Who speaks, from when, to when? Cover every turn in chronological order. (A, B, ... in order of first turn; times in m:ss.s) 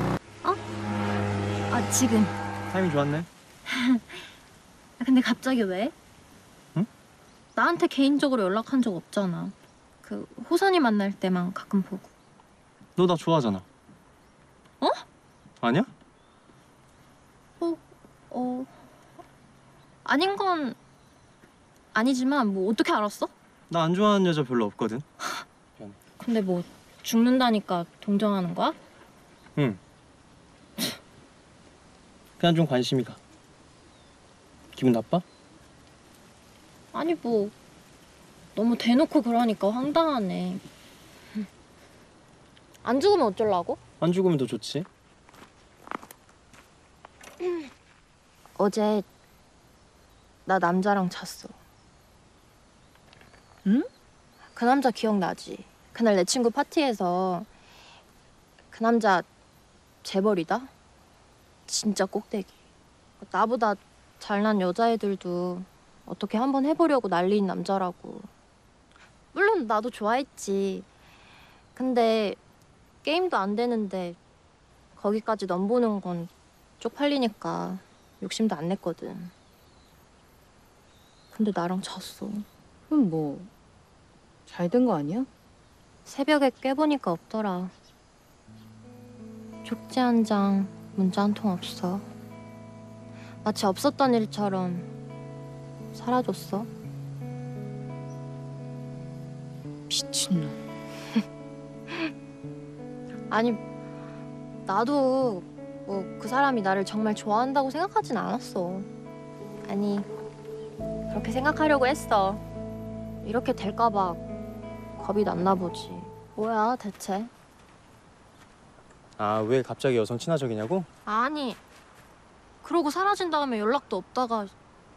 0:01.7-0:02.4 A
0:02.7-0:03.3 B
0:03.7-0:04.3 A
0:05.0-0:05.9 A
0:07.6-0:12.1 A
0:13.0-0:13.7 B
0:15.6-0:15.9 B
0:17.6-0:18.7 A
0:20.0-0:20.8 A
0:21.9-0:23.3 A
0:23.7-0:25.0 B
0:26.2-0:28.8 A
0:32.4-0:33.2 B
0:34.7-0:35.2 B
0:36.9-0:37.5 A
0:38.6-0:40.6 A
0:42.8-0:43.8 A
0:44.0-0:44.9 B
0:48.6-0:49.0 A
0:50.4-0:51.5 A
0:54.5-0:57.5 A
0:58.7-0:59.3 A
1:00.0-1:00.7 A
1:01.7-1:02.5 A
1:03.2-1:08.3 A
1:09.3-1:10.9 A
1:11.8-1:12.4 A
1:13.0-1:14.2 A
1:15.0-1:19.3 A
1:21.3-1:22.4 A
1:22.9-1:23.5 C
1:24.5-1:25.3 C
1:26.1-1:27.7 A
1:29.6-1:32.1 A
1:33.4-1:34.9 A
1:35.9-1:36.7 A
1:39.9-1:40.6 C
1:43.3-1:43.6 A
1:44.7-1:48.9 A
1:49.7-1:50.1 A
1:51.1-1:52.4 A
1:53.2-1:54.2 A
1:55.0-1:57.3 A
1:59.2-2:00.9 B
2:01.1-2:01.6 A
2:02.6-2:04.5 A